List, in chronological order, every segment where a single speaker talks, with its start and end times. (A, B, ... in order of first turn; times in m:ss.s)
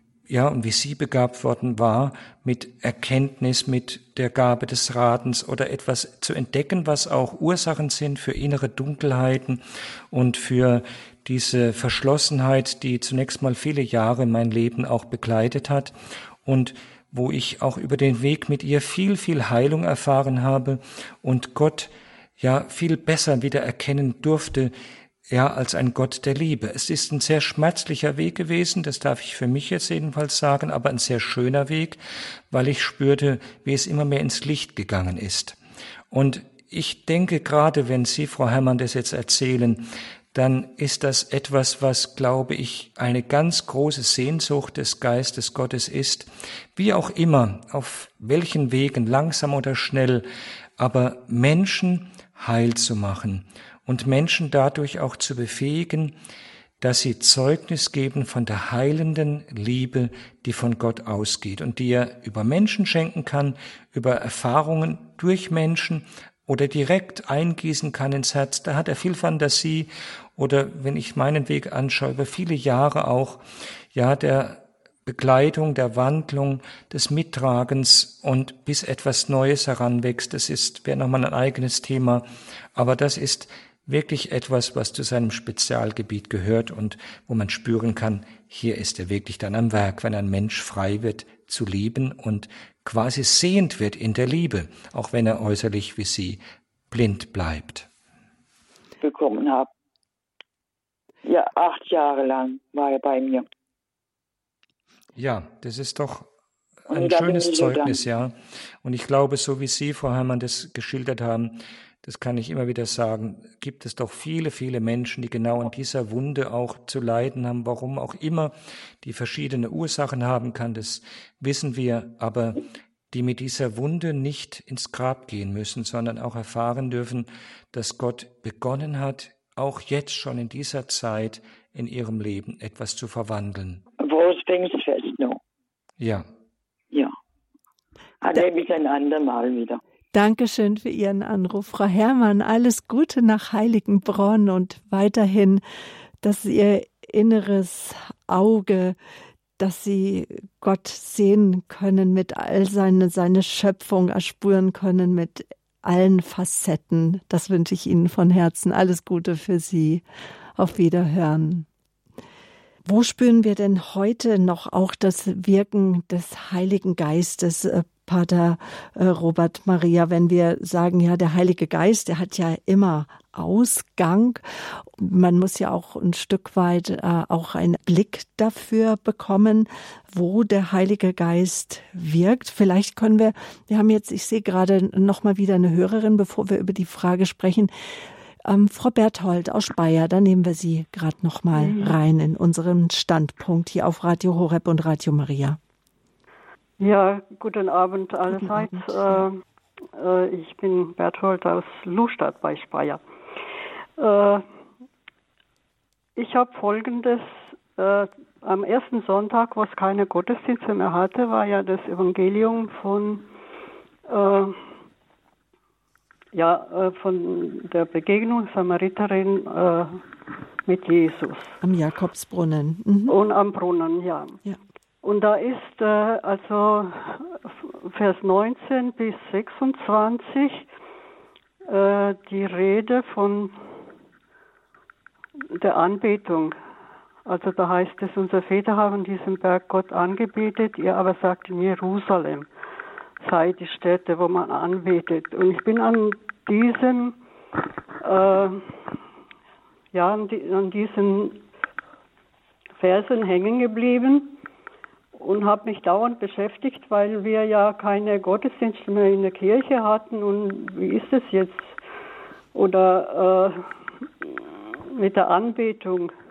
0:00.3-0:24.7 A
0:25.3-0:35.6 A
0:36.1-0:50.3 A
0:50.8-0:56.1 A
0:56.8-1:37.9 A
1:39.0-1:39.7 B
1:41.2-1:43.4 B
1:45.2-1:46.3 A
1:46.9-2:13.8 A
1:46.9-1:48.0 B
2:14.0-2:15.4 B
2:16.0-2:16.3 A
2:18.2-2:19.8 B
2:20.1-2:25.6 C
2:26.2-2:29.0 C
2:29.6-2:40.0 C
2:40.6-2:41.7 C
2:42.8-2:54.4 C
2:55.0-3:07.7 C
3:08.4-3:15.6 C
3:11.6-3:12.0 D
3:16.8-3:19.4 D
3:18.3-3:19.2 C
3:20.0-3:23.0 D
3:24.0-3:24.4 D
3:26.2-3:33.3 D
3:34.1-3:34.6 D
3:36.3-3:40.0 D
3:40.7-3:41.6 D
3:41.6-3:43.2 C
3:43.1-3:44.4 D
3:45.0-3:50.6 D
3:51.7-3:53.6 D
3:55.5-3:56.6 D
3:57.3-4:02.5 D
4:03.2-4:07.2 D
4:08.0-4:08.7 D
4:09.9-4:11.4 D
4:12.8-4:14.3 D
4:15.1-4:21.7 D
4:22.5-4:23.7 D
4:24.9-4:26.1 D